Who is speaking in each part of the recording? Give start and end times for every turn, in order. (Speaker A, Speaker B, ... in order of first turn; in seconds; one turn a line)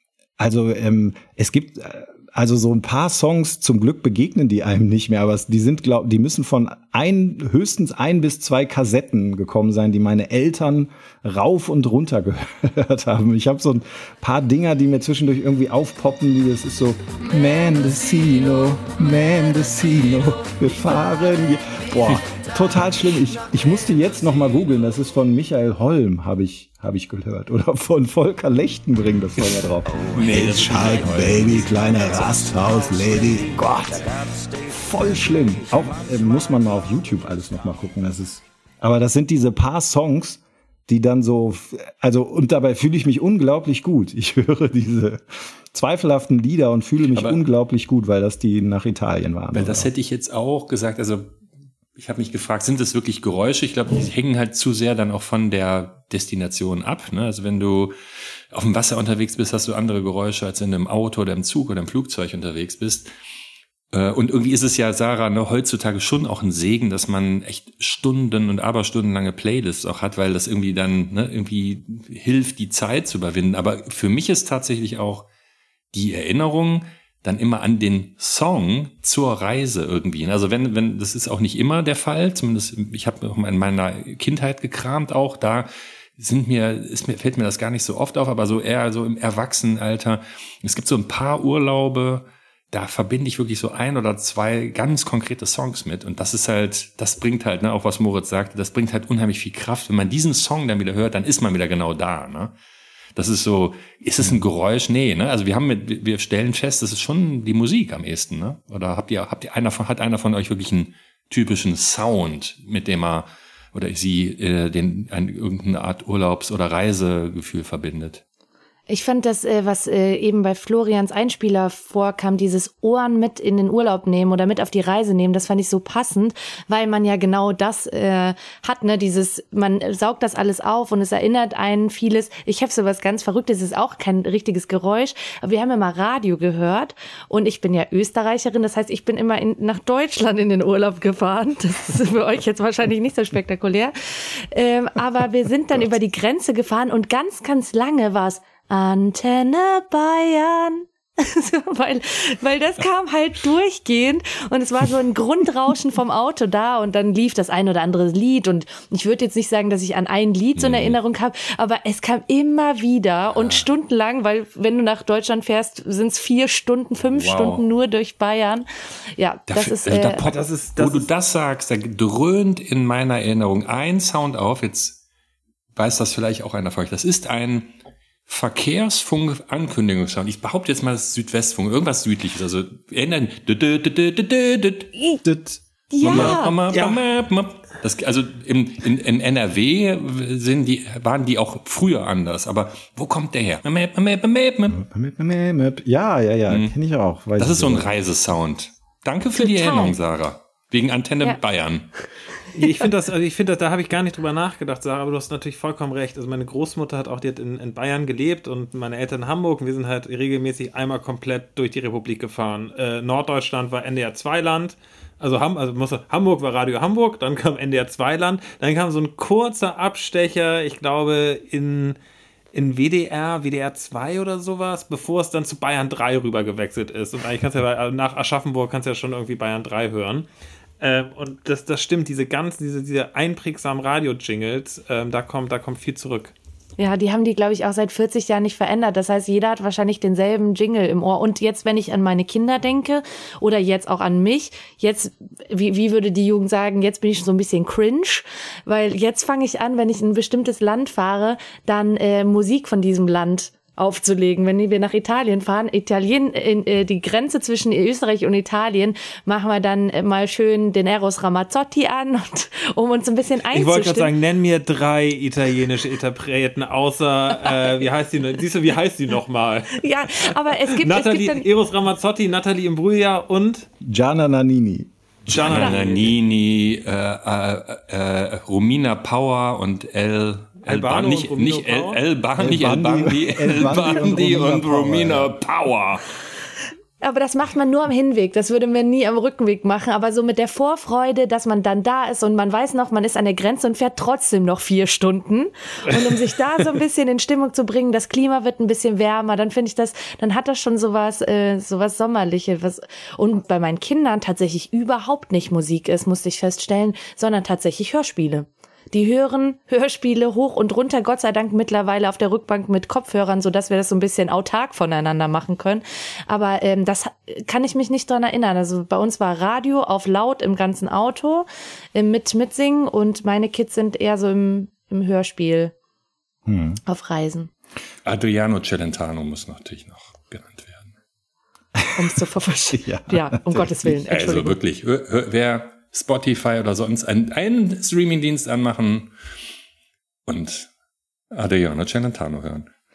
Speaker A: 0.4-34.1
Speaker B: 30.1-31.7
Speaker A: 34.7-49.9
Speaker B: 47.0-47.4
Speaker B: 49.5-51.3
Speaker B: 52.0-57.9
Speaker B: 58.5-63.1
Speaker B: 63.9-75.3
Speaker B: 75.9-102.5
Speaker B: 103.1-118.2
Speaker C: 118.9-168.7
Speaker B: 160.6-161.0
Speaker B: 167.1-167.6
Speaker C: 169.2-170.2
Speaker B: 169.5-175.0
Speaker D: 170.2-171.1
Speaker B: 175.8-177.7
Speaker B: 178.3-184.9
Speaker C: 184.9-185.2
Speaker A: 185.2-186.4
Speaker C: 185.9-186.5
Speaker B: 186.0-194.8
Speaker D: 186.7-187.0
Speaker A: 194.7-197.9
Speaker B: 196.5-196.7
Speaker B: 197.4-201.9
Speaker C: 199.4-199.9
Speaker D: 202.5-222.0
Speaker D: 222.5-230.2
Speaker D: 230.8-236.3
Speaker C: 236.8-264.1
Speaker D: 263.5-273.7
Speaker C: 269.8-271.4
Speaker A: 273.8-274.9
Speaker B: 275.3-286.0
Speaker D: 275.3-276.1
Speaker D: 280.6-282.0
Speaker A: 282.4-285.3
Speaker C: 287.0-325.7
Speaker D: 295.9-296.2
Speaker A: 326.4-326.8
Speaker C: 326.9-327.5
Speaker B: 328.0-330.9
Speaker A: 331.8-332.1
Speaker C: 331.9-334.5
Speaker A: 332.7-334.0
Speaker B: 334.1-339.1
Speaker B: 340.3-340.7
Speaker B: 341.3-342.7